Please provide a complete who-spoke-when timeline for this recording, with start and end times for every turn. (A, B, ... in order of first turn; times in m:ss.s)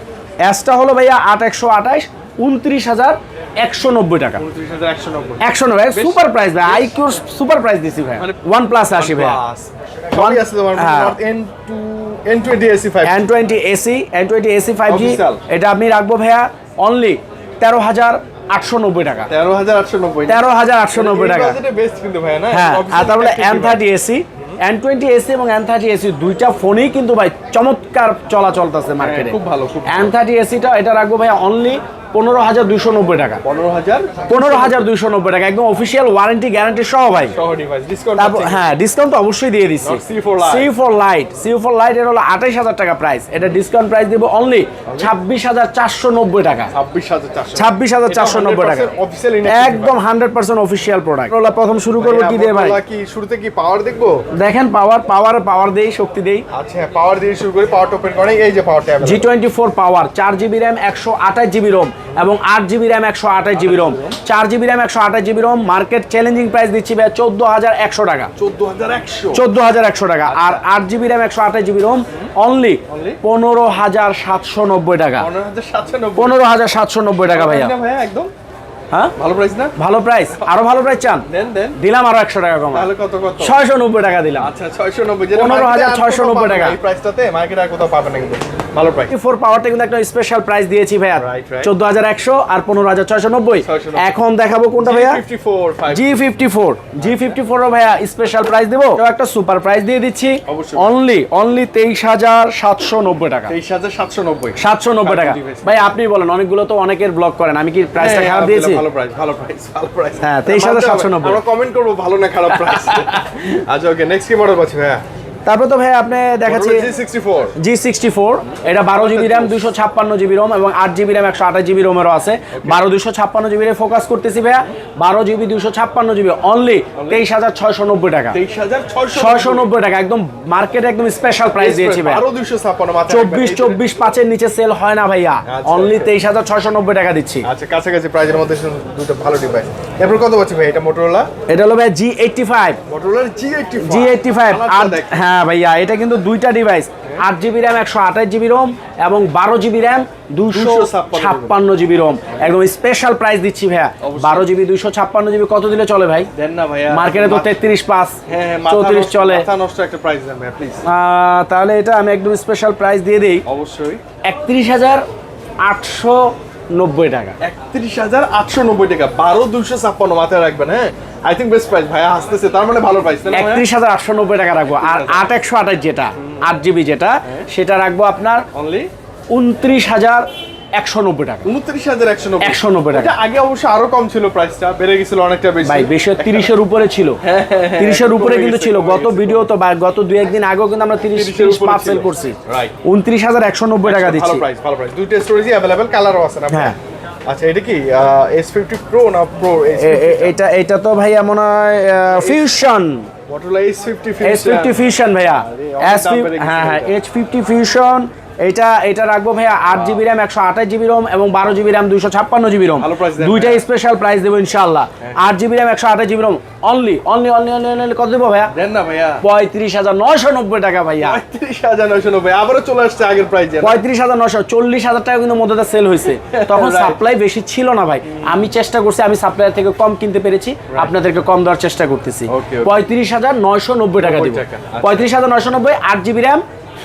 0:00.4-0:04.4 A
0:04.4-0:06.9 B
0:05.4-0:09.4 A
0:08.2-0:13.2 B
0:10.1-0:11.2 A
0:13.0-0:19.3 A
0:14.8-0:15.4 B
0:19.3-0:23.8 B
0:20.3-0:21.6 A
0:22.5-0:33.4 A
0:29.0-0:30.1 B
0:33.4-0:34.9 B
0:34.3-0:37.3 A
0:37.3-0:38.7 B
0:38.2-0:46.7 A
0:39.8-0:40.7 B
0:44.8-0:45.1 B
0:46.7-0:49.9 B
0:47.5-0:48.9 A
0:49.5-0:52.8 A
0:52.0-0:54.2 B
0:54.4-0:56.4 A
0:56.5-0:59.3 B
0:59.0-1:08.3 A
1:03.5-1:04.2 B
1:08.4-1:09.5 B
1:09.3-1:15.3 A
1:10.2-1:10.6 B
1:12.9-1:13.2 B
1:15.2-1:16.4 B
1:16.2-1:17.7 A
1:17.3-1:18.3 B
1:19.2-1:19.7 B
1:19.8-1:22.9 A
1:21.3-1:21.8 B
1:22.7-1:23.6 B
1:23.4-1:24.5 A
1:24.4-1:29.1 B
1:25.3-1:26.8 A
1:29.1-1:35.2 A
1:31.2-1:31.7 B
1:33.6-1:34.1 B
1:34.8-1:36.2 B
1:35.9-1:43.5 A
1:37.0-1:37.2 B
1:40.5-1:41.0 B
1:43.5-1:45.9 B
1:44.6-1:48.8 A
1:48.0-1:55.0 B
1:50.2-1:51.4 A
1:52.6-1:53.2 A
1:55.4-1:56.9 A
1:56.4-1:57.5 B
1:57.6-2:08.4 A
1:58.8-1:59.7 B
2:02.5-2:02.8 B
2:07.0-2:07.2 B
2:08.3-2:09.7 B
2:09.1-2:12.2 A
2:11.6-2:14.0 B
2:13.1-2:17.5 A
2:15.5-2:16.1 B
2:17.4-2:21.3 B
2:21.5-2:22.8 A
2:22.9-2:25.2 B
2:23.8-2:36.3 A
2:30.5-2:31.6 B
2:34.0-2:34.5 B
2:36.3-2:37.5 B
2:36.9-2:39.5 A
2:38.3-2:40.8 B
2:40.8-2:43.4 A
2:43.5-2:44.0 B
2:44.2-2:45.0 A
2:45.6-2:47.4 A
2:47.4-2:53.7 B
2:53.3-2:58.4 A
2:54.7-2:55.3 B
2:58.5-2:58.9 B
2:59.3-3:01.5 A
3:01.4-3:06.5 B
3:02.4-3:03.1 A
3:05.6-3:07.2 A
3:07.2-3:09.5 B
3:07.8-3:14.4 A
3:11.1-3:12.8 B
3:13.8-3:16.8 B
3:16.5-3:16.8 A
3:17.3-3:20.4 B
3:19.8-3:23.1 A
3:22.1-3:22.5 B
3:23.3-3:24.8 B
3:24.2-3:38.5 A
3:25.4-3:27.0 B
3:29.7-3:30.0 B
3:32.8-3:33.6 B
3:35.0-3:35.3 B
3:38.5-3:39.2 B
3:39.2-3:41.2 A
3:41.0-3:43.8 B
3:43.6-3:56.4 A
3:46.2-3:47.0 B
3:48.1-3:48.4 B
3:50.7-3:51.0 B
3:52.3-3:52.8 B
3:54.0-3:55.1 B